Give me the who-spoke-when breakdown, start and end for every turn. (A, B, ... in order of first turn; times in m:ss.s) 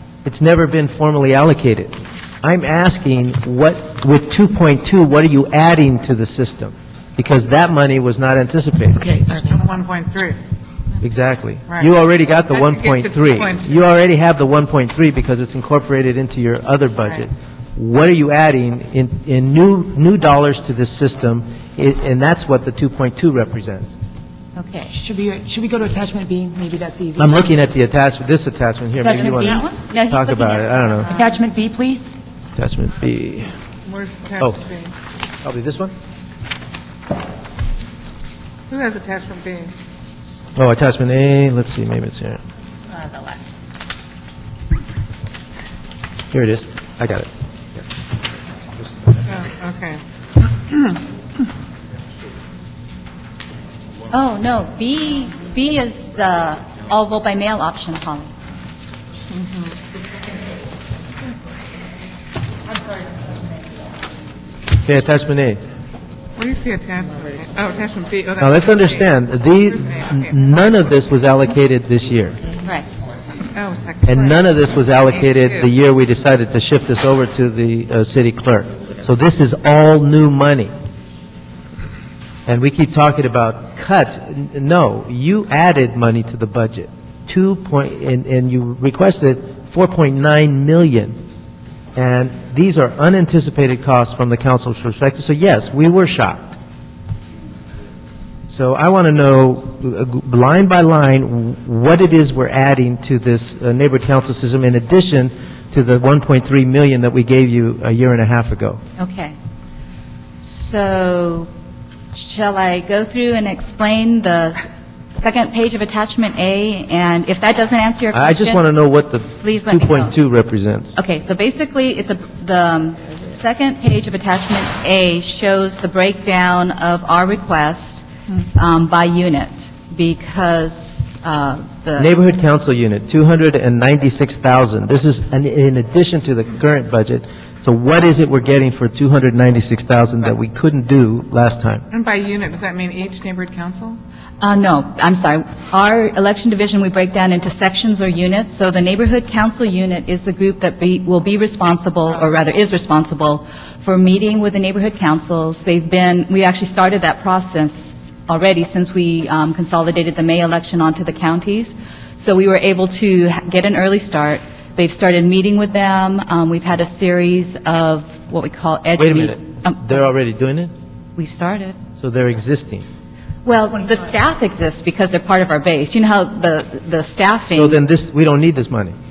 0:00.2-0:09.2 A
0:09.3-0:10.4 B
0:11.0-0:23.9 A
0:12.5-0:13.8 B
0:24.6-0:24.9 C
0:24.9-0:27.3 D
0:27.2-0:31.2 A
0:29.0-0:29.5 D
0:29.2-0:31.3 C
0:31.2-0:32.2 D
0:32.6-0:33.5 A
0:33.8-0:35.0 B
0:35.4-0:35.9 A
0:38.7-0:39.7 B
0:40.6-0:42.4 A
0:46.3-0:47.3 A
0:49.2-0:51.0 B
0:54.1-0:58.3 C
0:59.3-0:59.8 B
1:04.8-1:05.6 A
1:06.4-1:09.1 B
1:08.4-1:12.4 A
1:09.9-1:10.2 B
1:13.5-1:14.4 B
1:14.0-1:20.7 A
1:22.5-1:31.2 A
1:32.0-1:36.6 A
1:38.5-1:48.8 A
1:49.0-1:49.4 C
1:50.4-1:51.5 C
1:52.1-2:00.1 C
1:58.1-2:00.9 A
2:01.0-2:12.1 C
2:12.0-2:21.8 A
2:21.9-2:24.0 B
2:24.4-2:50.0 C
2:49.0-2:50.7 A
2:51.2-2:51.8 C
2:52.0-2:52.9 A
2:53.4-2:57.8 C
2:57.5-2:59.0 A